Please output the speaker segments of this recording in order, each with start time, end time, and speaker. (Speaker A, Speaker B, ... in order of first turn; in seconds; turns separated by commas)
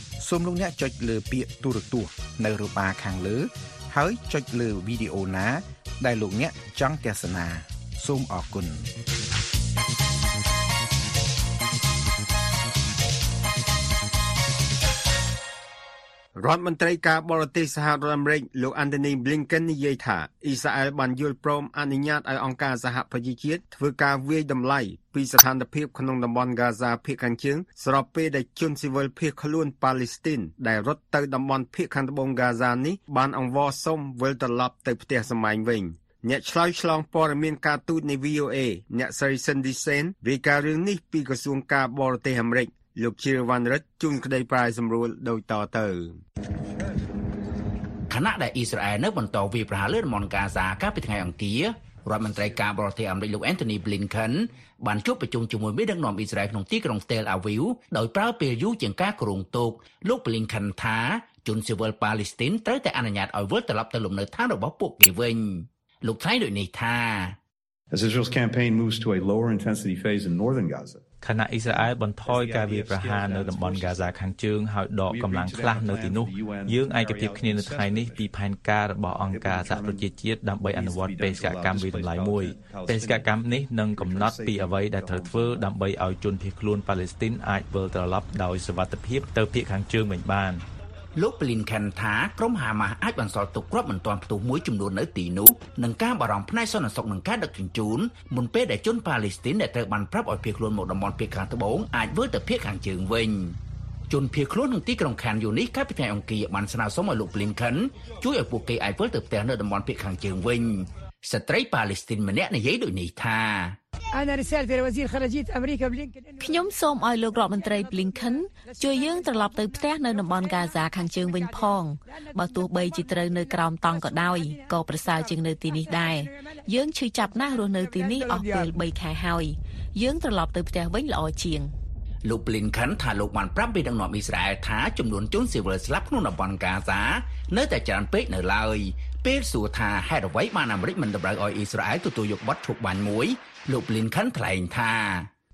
Speaker A: 0.2-8.9, Speaker B: 16.4-46.2, Speaker C: 48.1-67.4, Speaker D: 67.9-71.1, Speaker E: 71.2-90.6, Speaker D: 71.6-74.3, Speaker D: 75.0-78.3, Speaker D: 79.0-85.7, Speaker C: 91.1-103.6, Speaker C: 104.1-113.8, Speaker F: 116.4-131.7, Speaker C: 132.2-145.3